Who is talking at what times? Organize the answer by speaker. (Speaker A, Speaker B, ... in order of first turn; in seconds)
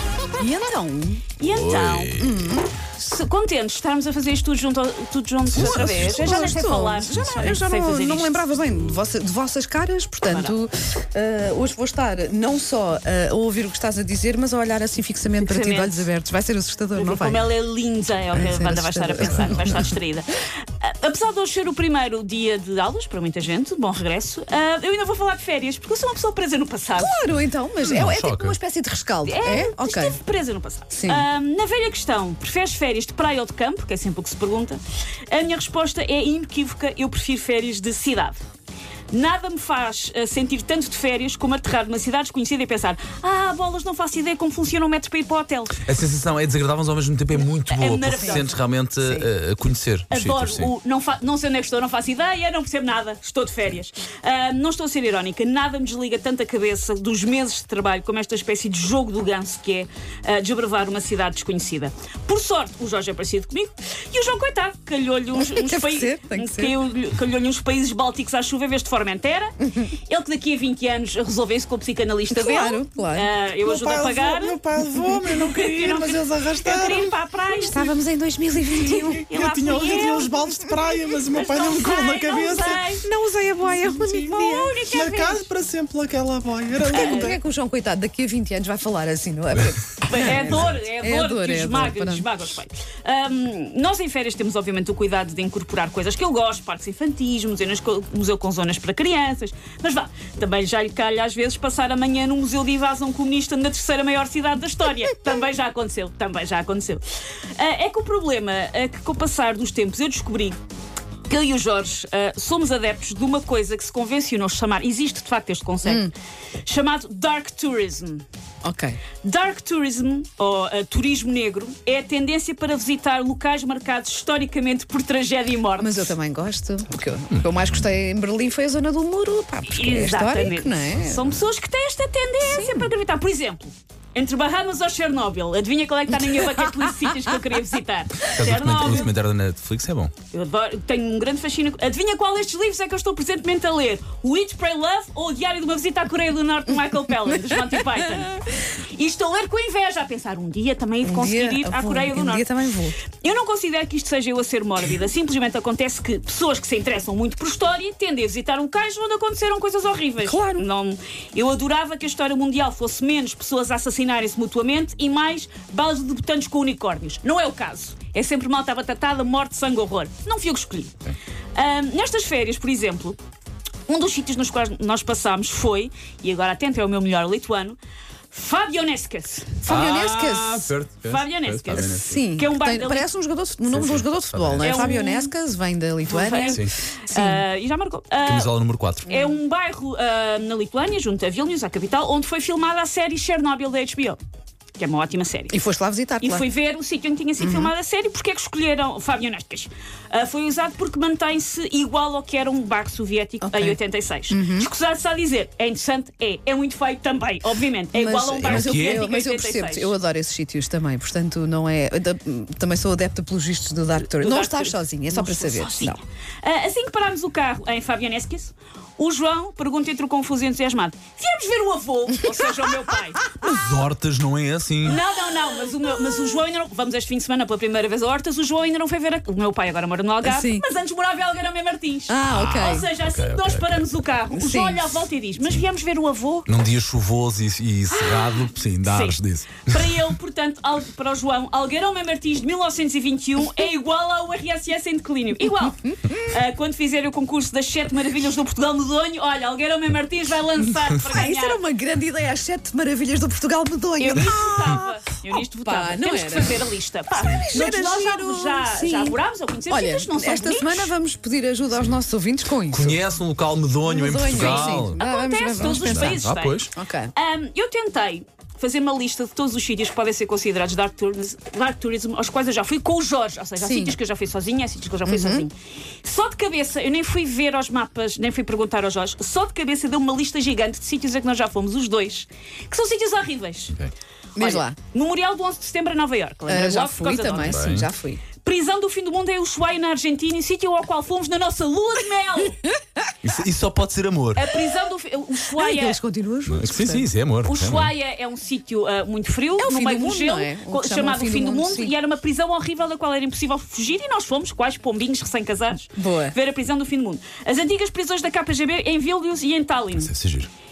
Speaker A: 0.4-1.2, 2.1-2.7, 5.5-17.5, 18.3-19.9, 26.9-30.2, 30.9-31.3, 48.1-48.5, 49.0-49.3, 65.3-66.8, 69.6-69.9, 72.3-73.3, 77.5-79.3, 82.5-84.8, 86.9-92.3, 115.8-116.1, 118.6-119.0, 125.8-131.4, 132.4-132.9, 136.2-137.2, 147.3-147.6, 151.0-153.0, 160.2-160.7, 179.6-180.7, 182.0-187.4, 195.5-196.4, 197.4-197.7, 203.4-203.8, 204.3-204.7, 207.9-216.0, 223.2-223.5, 230.2-230.6, 232.1-232.8, 234.3-234.8, 251.1-259.2, 259.7-263.0, 263.8-267.1, 273.6-273.9, 275.1-275.4, 284.4-284.8, 286.4-288.2, 295.5-297.1, 299.6-301.9, 305.9-306.3
Speaker B: 1.4-2.2, 3.0-8.5, 10.3-10.5, 15.4-16.1, 16.9-27.2, 29.2-38.4, 39.1-45.8, 47.7-48.6, 50.1-69.5, 70.1-74.6, 75.3-77.9, 78.8-83.1, 83.7-85.5, 86.9-87.4, 90.1-107.0, 107.5-110.6, 111.3-116.1, 116.6-118.2, 119.2-126.1, 129.7-139.1, 140.3-152.5, 153.2-170.9, 171.5-173.2, 173.9-177.8, 178.3-179.8, 181.0-183.1, 184.6-185.3, 186.1-188.5, 189.1-194.2, 194.8-195.6, 196.2-209.9, 214.1-223.3, 224.8-236.5, 237.9-251.6, 254.0-260.9, 264.3-283.7, 284.4-287.6, 288.4-292.6, 294.3-296.0, 297.4-310.1
Speaker C: 1.5-2.5, 5.5-7.6, 19.2-19.6, 27.8-28.6, 45.8-50.7, 76.1-76.5, 90.3-90.8, 138.2-140.1, 179.7-182.2, 183.7-184.9, 188.2-189.2, 208.4-209.0, 223.4-225.0, 232.3-233.9, 236.5-240.1, 262.7-265.0, 265.6-266.7, 287.4-287.9, 293.2-294.5, 296.5-297.9, 310.0-310.5
Speaker D: 73.6-77.1, 79.2-82.8, 84.9-87.4